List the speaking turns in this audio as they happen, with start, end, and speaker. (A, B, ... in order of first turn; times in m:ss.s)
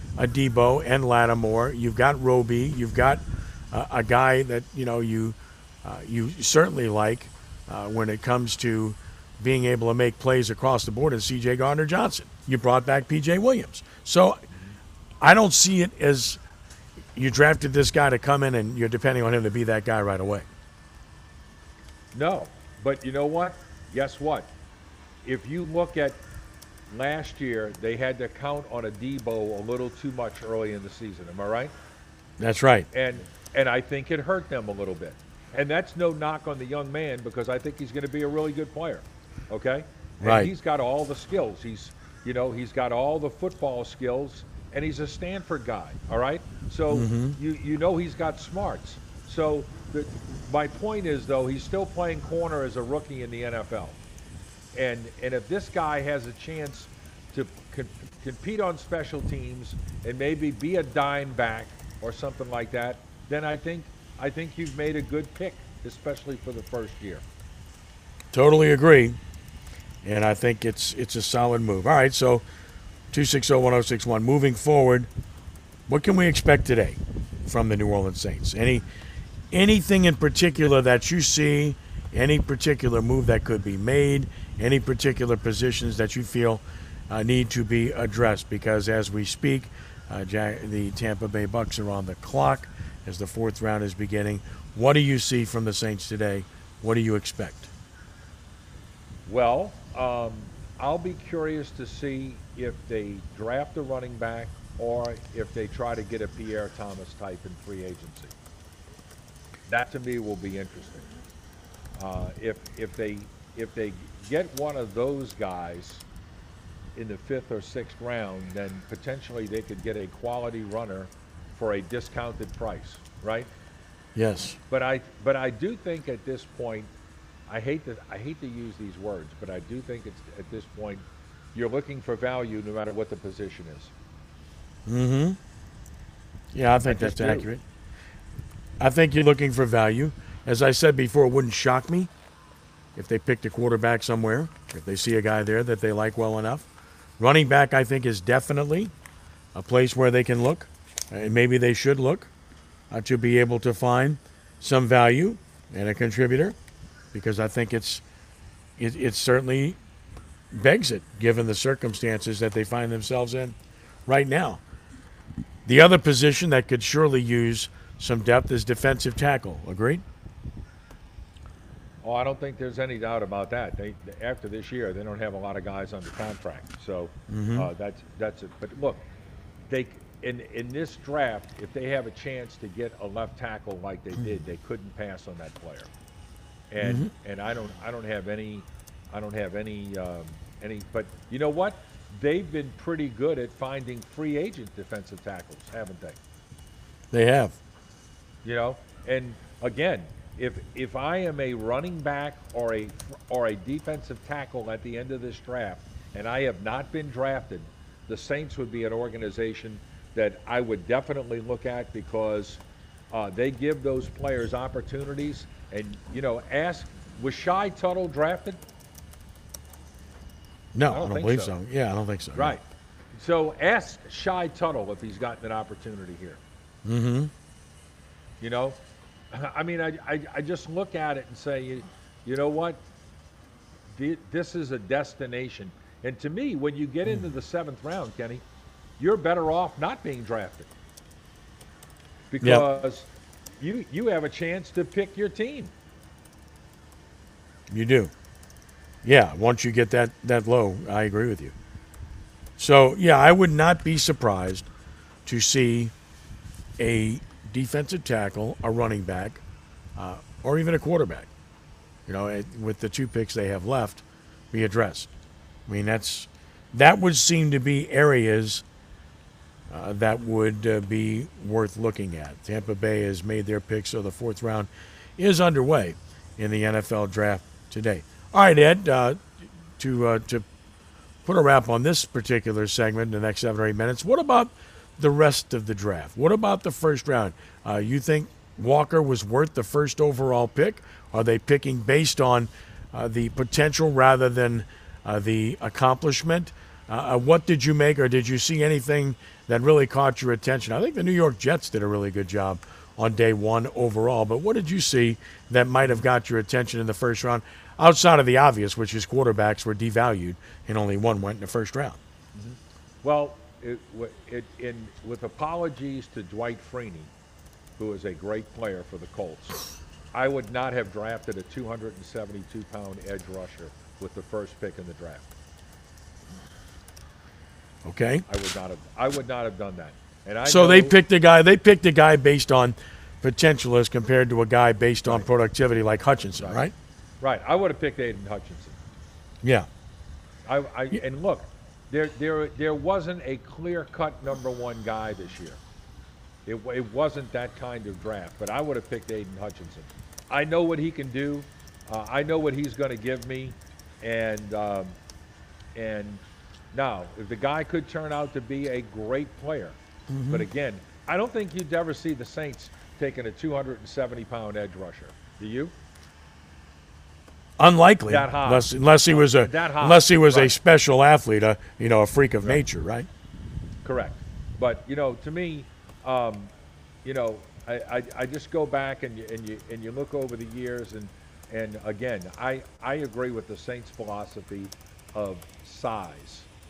0:00.2-0:14.4 A
0:14.5-0:14.8 B
0:15.2-0:16.4 A
0:17.1-0:20.5 A
0:22.1-0:24.5 B
0:25.2-0:26.2 B
0:26.9-0:31.7 B
0:32.4-0:32.9 A
0:32.9-0:54.0 B
0:40.2-0:40.5 A
0:46.9-0:47.4 A
0:54.7-1:07.2 B
1:08.3-1:09.2 A
1:10.0-1:12.4 A
1:13.1-1:15.1 A
1:15.9-1:18.8 A
1:19.5-1:37.7 A
1:39.2-1:48.3 B
1:49.7-1:51.1 B
1:52.0-1:56.0 B
1:57.0-2:03.5 B
2:04.1-2:04.6 A
2:04.7-2:06.9 B
2:07.5-2:13.9 B
2:14.9-2:15.4 A
2:16.5-2:17.6 A
2:16.8-2:17.5 B
2:18.8-2:22.1 A
2:23.0-2:26.7 A
2:27.2-2:28.9 A
2:29.5-2:32.3 A
2:32.9-2:36.6 A
2:37.1-2:38.0 A
2:38.8-2:39.8 A
2:40.5-2:44.6 A
2:45.6-2:50.0 A
2:52.0-2:59.0 B
2:57.3-2:57.7 A
2:59.7-3:05.9 B
3:06.7-3:16.2 B
3:06.8-3:07.1 A
3:17.1-3:17.6 A
3:18.4-3:38.6 B
3:40.7-3:42.6 A
3:40.9-3:41.5 B
3:42.3-3:46.4 B
3:46.8-3:47.3 A
3:48.4-3:48.8 B
3:49.3-3:52.8 B
3:53.9-3:58.4 B
3:59.0-4:00.7 B
4:02.3-4:03.1 B
4:02.4-4:02.7 A
4:03.6-4:05.7 B
4:07.7-4:08.1 A
4:09.0-4:11.5 A
4:12.6-4:14.7 A
4:15.2-4:15.9 A
4:16.8-4:19.4 A
4:20.0-4:21.3 A
4:22.0-4:25.1 A
4:25.7-4:28.6 A
4:29.7-4:39.2 A
4:39.8-4:40.4 A
4:41.2-5:12.0 A
5:12.3-5:17.1 B
5:17.8-5:19.6 B
5:20.1-5:25.3 B
5:27.8-5:28.2 A
5:28.3-5:31.0 B
5:30.4-5:36.7 A
5:35.0-5:35.3 B
5:36.4-5:36.6 B
5:37.2-5:38.8 B
5:39.4-5:39.7 A
5:40.4-5:45.6 B
5:46.4-5:55.0 B
5:55.7-5:59.8 B
6:00.1-6:00.5 A
6:00.3-6:05.7 B
6:07.6-6:13.1 A
6:08.0-6:10.6 B
6:13.8-6:16.5 B
6:17.0-6:26.5 B